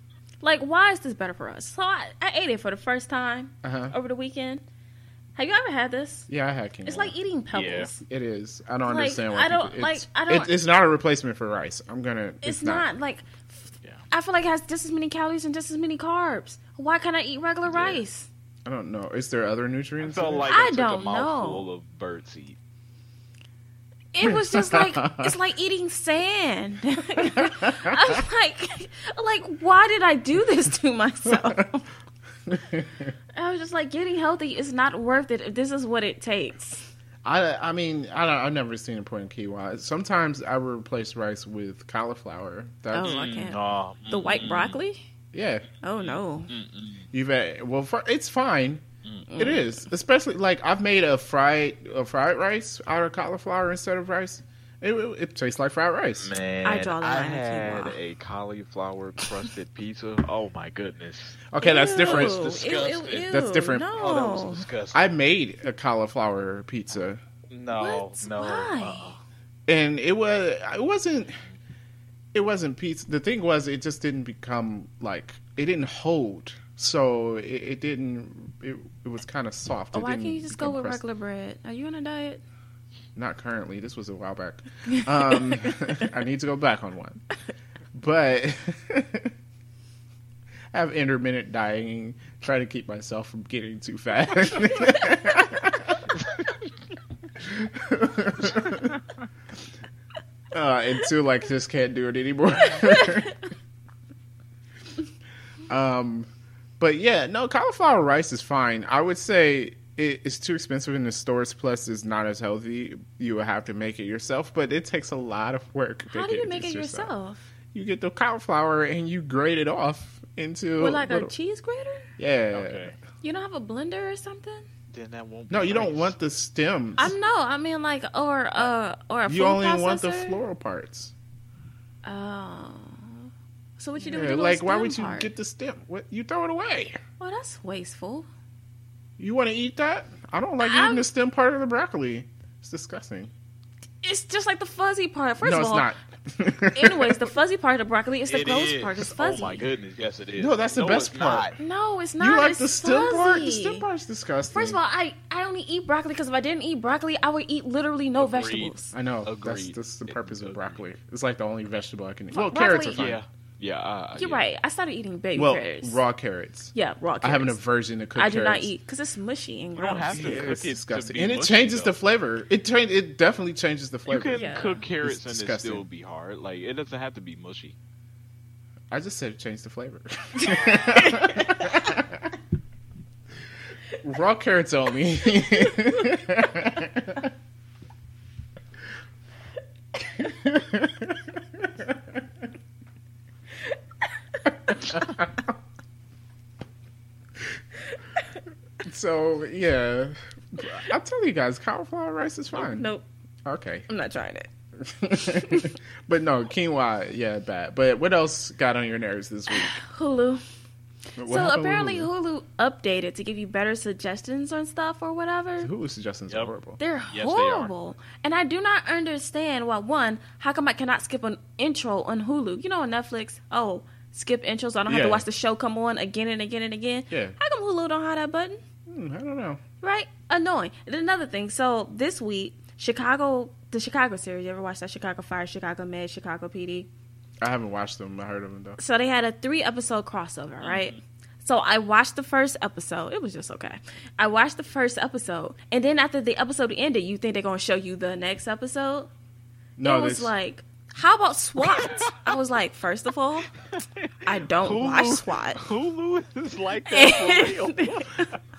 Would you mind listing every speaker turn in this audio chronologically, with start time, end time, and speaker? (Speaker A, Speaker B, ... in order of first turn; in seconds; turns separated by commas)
Speaker A: 0.4-4.6, Speaker B: 3.6-3.9, Speaker A: 5.3-6.3, Speaker B: 6.3-7.1, Speaker A: 6.8-8.0, Speaker C: 7.5-7.9, Speaker B: 8.0-12.8, Speaker A: 8.8-10.5, Speaker A: 12.4-13.6, Speaker A: 14.1-18.3, Speaker C: 17.7-18.0, Speaker B: 18.6-20.5, Speaker C: 20.0-22.6, Speaker A: 20.5-21.6, Speaker A: 24.1-31.9, Speaker B: 24.2-25.3, Speaker B: 27.2-28.2, Speaker B: 31.3-31.6, Speaker B: 32.5-33.1, Speaker A: 33.4-36.9, Speaker B: 37.2-43.2, Speaker A: 42.9-45.0, Speaker C: 43.0-44.8, Speaker B: 45.3-45.6, Speaker A: 45.8-46.5, Speaker C: 46.0-47.1, Speaker B: 47.1-48.8, Speaker C: 49.0-49.3, Speaker A: 49.3-49.7, Speaker B: 49.4-56.3, Speaker C: 56.2-61.4, Speaker A: 56.6-58.0, Speaker B: 61.5-62.5, Speaker A: 61.6-64.7, Speaker C: 62.0-63.4, Speaker B: 63.3-63.9, Speaker C: 63.9-65.1, Speaker B: 64.9-67.2, Speaker C: 67.5-69.2, Speaker A: 67.8-69.2, Speaker B: 69.7-71.4, Speaker B: 72.3-81.0, Speaker A: 79.9-82.4, Speaker B: 83.2-87.2, Speaker A: 84.9-85.8, Speaker B: 87.9-89.3, Speaker B: 90.7-96.1, Speaker B: 97.4-99.0, Speaker B: 100.5-103.4, Speaker A: 102.7-103.3, Speaker B: 105.7-106.3, Speaker B: 106.8-117.1, Speaker A: 116.1-117.5, Speaker B: 117.7-121.3, Speaker A: 120.8-122.1, Speaker B: 122.2-122.9, Speaker C: 122.5-123.0, Speaker A: 123.2-124.7, Speaker C: 124.9-126.1, Speaker B: 125.5-127.1, Speaker A: 127.0-130.4, Speaker B: 129.3-131.1, Speaker A: 132.0-135.3, Speaker B: 134.1-137.0, Speaker A: 137.2-138.3, Speaker B: 139.2-143.3, Speaker A: 140.6-141.1, Speaker A: 144.0-145.9, Speaker B: 145.4-147.3, Speaker A: 146.7-149.6, Speaker C: 148.3-151.6, Speaker B: 150.4-151.5, Speaker A: 151.6-153.8, Speaker B: 152.2-154.8, Speaker A: 154.5-158.9, Speaker C: 158.2-160.8, Speaker B: 158.9-163.2, Speaker A: 162.3-163.1, Speaker C: 162.9-164.5, Speaker A: 164.2-166.0, Speaker B: 165.3-168.7, Speaker A: 166.7-167.6, Speaker A: 168.2-170.6, Speaker C: 169.8-171.9, Speaker B: 170.1-175.8, Speaker C: 174.1-177.8, Speaker A: 174.3-174.8, Speaker B: 178.9-182.3, Speaker A: 180.4-181.8, Speaker B: 184.0-187.3, Speaker A: 185.4-186.1, Speaker A: 190.1-190.3, Speaker B: 190.2-192.2, Speaker A: 194.3-195.1, Speaker B: 194.7-195.5, Speaker B: 198.8-202.9, Speaker A: 202.5-203.1, Speaker B: 203.4-203.9, Speaker A: 203.9-204.5, Speaker B: 204.8-209.8, Speaker A: 205.2-205.7, Speaker A: 209.5-210.4, Speaker B: 211.2-212.1, Speaker A: 211.2-215.7, Speaker B: 215.6-216.8, Speaker A: 216.8-228.6, Speaker C: 217.1-217.7, Speaker B: 224.9-225.2, Speaker B: 227.1-227.4, Speaker B: 228.9-229.6, Speaker A: 229.8-236.9, Speaker B: 237.4-238.8, Speaker A: 238.8-249.1, Speaker C: 240.6-241.0, Speaker B: 249.8-250.3, Speaker A: 249.8-253.5, Speaker C: 251.6-252.3, Speaker C: 253.7-258.4, Speaker A: 254.2-255.6, Speaker A: 256.9-258.3